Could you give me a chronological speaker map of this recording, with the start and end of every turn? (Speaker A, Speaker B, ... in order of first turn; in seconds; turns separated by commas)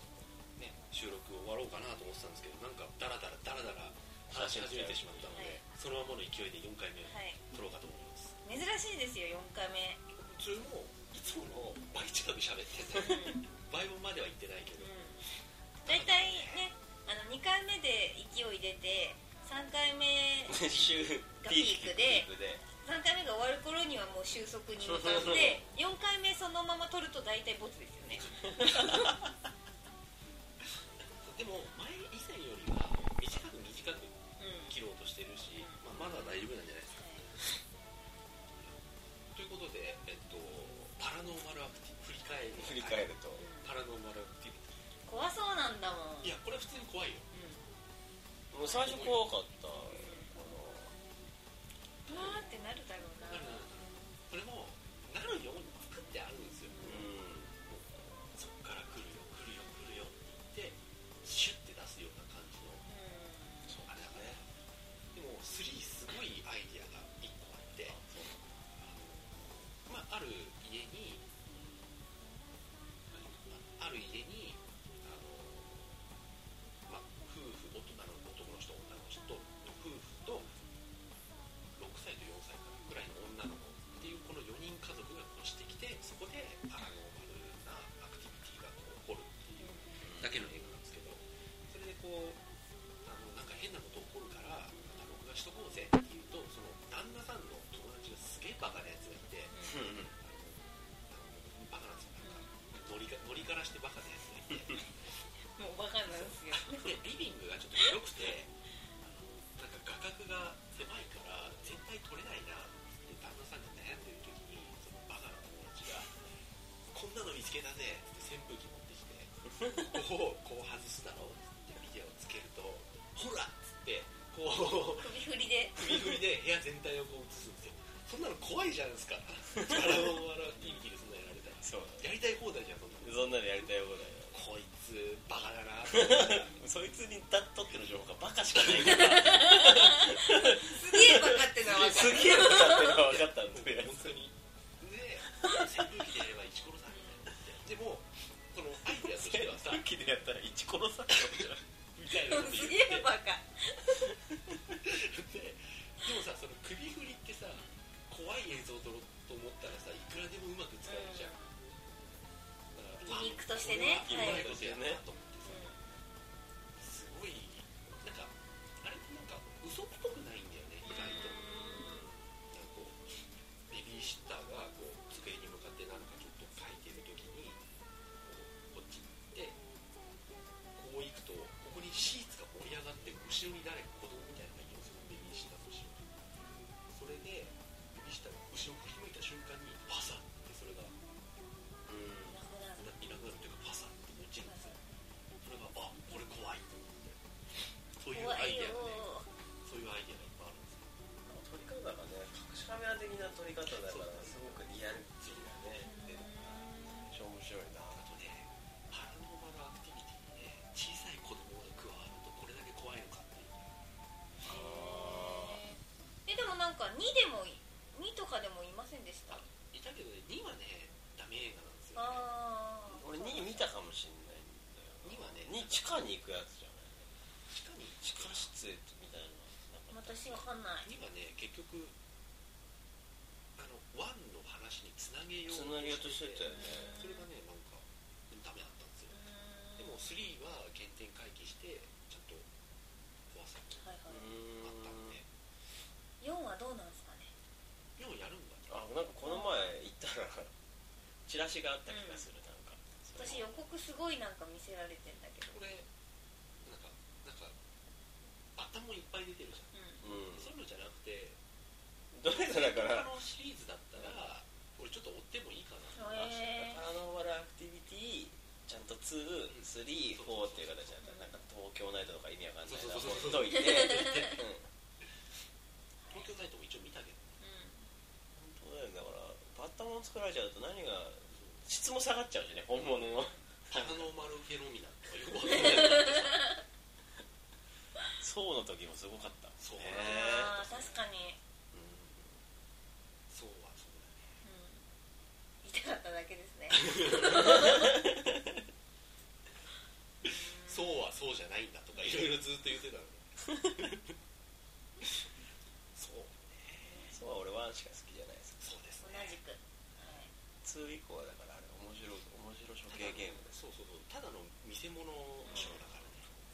Speaker A: 0.6-8.4, Speaker B: 4.3-5.4, Speaker C: 5.3-5.6, Speaker C: 7.1-7.4, Speaker C: 8.4-10.0, Speaker A: 10.2-14.9, Speaker C: 12.9-13.4, Speaker C: 14.8-15.2, Speaker A: 15.8-16.7, Speaker C: 15.9-20.6, Speaker B: 20.5-22.6, Speaker A: 20.6-21.0, Speaker C: 21.4-22.3, Speaker C: 22.8-29.3, Speaker B: 24.8-25.6, Speaker A: 28.1-28.5, Speaker B: 28.5-29.3, Speaker A: 31.2-37.6, Speaker C: 34.4-34.8, Speaker C: 35.5-37.3, Speaker A: 38.6-38.8, Speaker A: 39.3-44.7, Speaker B: 42.5-43.5, Speaker C: 43.4-43.7, Speaker C: 45.1-46.4, Speaker A: 46.2-47.3, Speaker C: 47.3-47.6, Speaker B: 48.5-51.0, Speaker C: 48.6-49.2, Speaker C: 49.9-50.4, Speaker C: 52.1-53.7, Speaker A: 53.3-57.0, Speaker C: 56.7-57.1, Speaker B: 56.8-57.6, Speaker A: 57.6-62.9, Speaker C: 62.9-63.7, Speaker B: 63.7-64.4, Speaker A: 63.8-64.5, Speaker A: 65.1-68.0, Speaker B: 67.9-68.5, Speaker A: 68.7-71.3, Speaker A: 73.1-76.0, Speaker A: 76.9-80.5, Speaker A: 81.8-92.4, Speaker C: 89.6-89.9, Speaker B: 90.0-90.5, Speaker A: 93.0-99.6, Speaker C: 99.5-99.9, Speaker B: 99.6-100.1, Speaker A: 100.1-105.2, Speaker C: 102.2-102.5, Speaker C: 105.6-107.0, Speaker A: 106.1-116.2, Speaker A: 116.9-125.2, Speaker C: 125.0-126.2, Speaker A: 125.8-133.3, Speaker B: 129.7-130.0, Speaker B: 131.6-132.1, Speaker B: 133.0-134.4, Speaker A: 134.3-136.6, Speaker B: 135.9-144.2, Speaker A: 138.6-139.2, Speaker C: 139.1-143.0, Speaker A: 141.6-149.8, Speaker C: 146.9-147.2, Speaker B: 148.9-151.6, Speaker A: 151.1-153.1, Speaker C: 152.1-154.2, Speaker B: 154.3-154.8, Speaker A: 154.8-161.4, Speaker C: 160.8-161.5, Speaker A: 162.7-165.8, Speaker C: 163.1-164.4, Speaker B: 163.6-165.0, Speaker C: 165.4-165.8, Speaker A: 166.8-171.5, Speaker C: 170.9-172.1, Speaker B: 171.8-172.2, Speaker A: 172.5-173.1, Speaker A: 173.7-177.6, Speaker A: 178.2-179.6, Speaker A: 180.8-186.1, Speaker C: 185.0-185.3, Speaker A: 186.9-190.9, Speaker B: 191.9-192.4, Speaker C: 192.3-192.9, Speaker A: 192.8-194.8, Speaker C: 194.5-194.8, Speaker A: 195.4-197.2, Speaker A: 197.9-200.9, Speaker C: 198.1-199.3, Speaker B: 201.3-208.0, Speaker A: 203.7-204.6, Speaker C: 205.8-207.1, Speaker A: 207.9-213.8, Speaker B: 214.4-215.6, Speaker C: 214.4-219.4, Speaker A: 219.3-222.3, Speaker C: 222.0-223.6, Speaker B: 222.9-227.1, Speaker A: 225.0-225.7, Speaker A: 227.5-228.5, Speaker B: 228.0-230.4, Speaker C: 229.9-230.9, Speaker A: 230.8-231.9, Speaker A: 233.6-239.1, Speaker B: 235.5-236.9, Speaker C: 236.5-237.3, Speaker C: 239.1-240.1, Speaker A: 239.8-242.5, Speaker A: 243.3-243.8, Speaker C: 243.8-244.3, Speaker B: 244.1-245.2, Speaker A: 244.6-245.2, Speaker C: 246.2-247.3, Speaker A: 248.0-248.7, Speaker B: 248.7-250.5, Speaker C: 249.2-249.8, Speaker B: 251.3-253.5, Speaker C: 251.9-252.3, Speaker C: 253.2-255.6, Speaker A: 255.5-255.9, Speaker A: 256.6-257.6, Speaker A: 258.6-261.4, Speaker C: 259.7-260.0, Speaker B: 260.0-260.5, Speaker B: 262.1-263.1, Speaker A: 262.3-266.6, Speaker B: 264.0-264.2, Speaker C: 265.9-266.8, Speaker B: 266.4-274.7, Speaker A: 269.5-271.0, Speaker C: 271.0-271.4, Speaker A: 272.7-274.4, Speaker C: 273.1-274.4, Speaker A: 276.1-277.3, Speaker C: 277.4-277.9, Speaker B: 278.3-284.1, Speaker A: 281.4-281.6, Speaker C: 283.0-283.4, Speaker A: 283.7-286.5, Speaker C: 285.5-286.6, Speaker B: 288.2-291.0, Speaker A: 289.6-290.6, Speaker C: 289.8-291.4, Speaker B: 291.7-292.3, Speaker A: 293.3-294.3, Speaker C: 294.4-294.9, Speaker C: 295.6-298.0, Speaker A: 296.7-297.7, Speaker B: 297.3-298.7, Speaker C: 300.2-301.1, Speaker A: 300.2-304.1, Speaker A: 306.0-307.1, Speaker C: 306.9-307.1, Speaker B: 307.1-308.8, Speaker A: 308.6-309.4, Speaker C: 309.0-310.3, Speaker B: 310.6-313.6, Speaker A: 312.9-316.3, Speaker C: 315.4-315.8, Speaker B: 315.5-316.1